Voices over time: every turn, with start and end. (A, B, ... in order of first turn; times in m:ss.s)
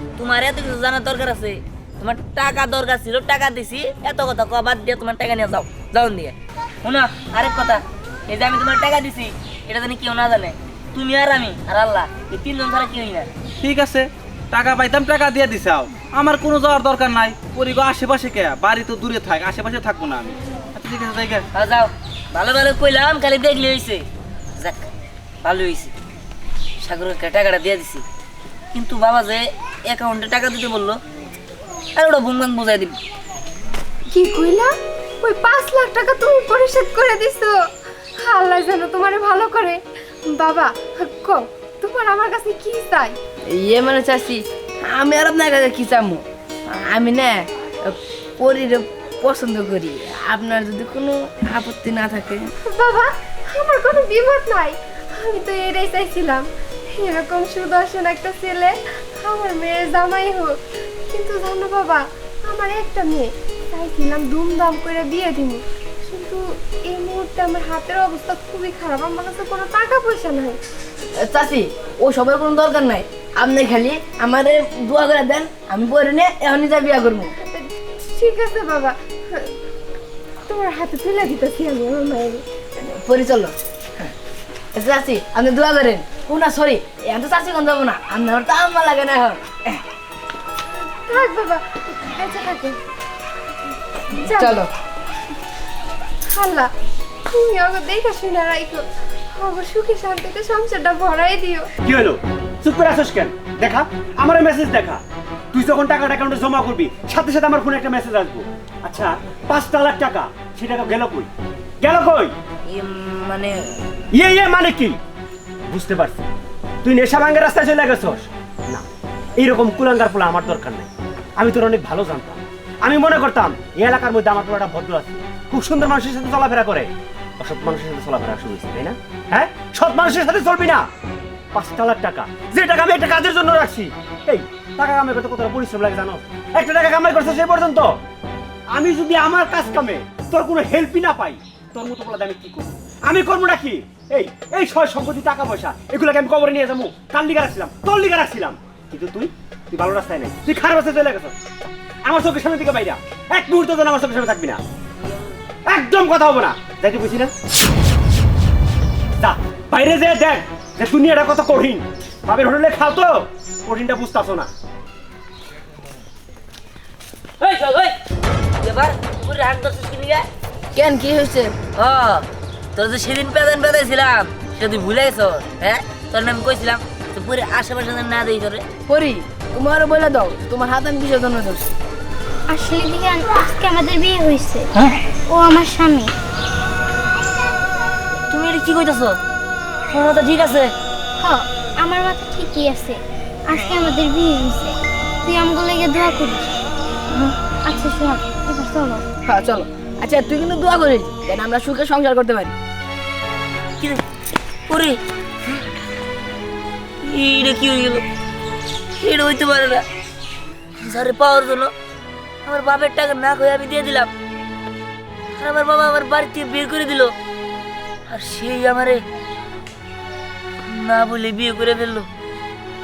0:00.2-0:13.3 A
0:13.6-0:21.4 B
0:21.5-0:24.0 A
0:24.6-0:24.8 A
0:25.4-0:25.9 A
0:26.8-0:28.0 A
0:28.7-0:31.0 A
0:32.0-0:33.0 A
0:34.1-0:34.7 C
0:35.2-0:37.5 C
0:38.2-0:39.8 C
0:40.3-0:43.1 C
0:43.5-0:52.5 D
0:52.7-1:00.6 C
1:01.1-1:10.6 C
1:11.2-1:17.3 D
1:17.4-1:19.5 C
1:20.5-1:22.4 C
1:22.8-1:23.5 D
1:24.7-1:29.6 D
1:31.1-1:31.6 C
1:32.2-1:32.8 C
1:34.2-1:34.6 C
1:34.3-1:34.6 D
1:36.3-1:36.7 C
1:37.3-1:38.8 C
1:39.4-1:41.7 C
1:41.8-1:45.0 E
1:45.5-1:51.3 E
1:51.8-1:52.3 E
1:52.7-1:53.5 A
1:54.1-1:55.0 E
1:55.7-1:56.2 E
1:56.8-1:58.8 E
1:59.4-2:10.8 E
2:11.5-2:17.9 E
2:18.7-2:31.3 E
2:32.0-2:34.6 E
2:35.0-2:35.3 A
2:35.7-2:37.3 E
2:39.2-2:44.5 E
2:47.4-2:48.0 A
2:48.6-2:50.2 A
2:50.7-2:51.5 D
2:51.8-2:58.6 A
2:58.9-3:01.7 D
3:02.5-3:04.7 F
3:04.7-3:05.0 A
3:05.3-3:06.1 F
3:08.3-3:09.2 A
3:09.9-3:10.7 A
3:11.2-3:16.6 F
3:17.6-3:19.0 F
3:19.3-3:22.5 D
3:24.7-3:25.0 A
3:27.0-3:28.0 A
3:29.0-3:29.8 A
3:30.8-3:31.7 A
3:32.4-3:34.1 A
3:35.4-3:37.1 A
3:38.1-3:39.0 A
3:40.6-3:42.1 A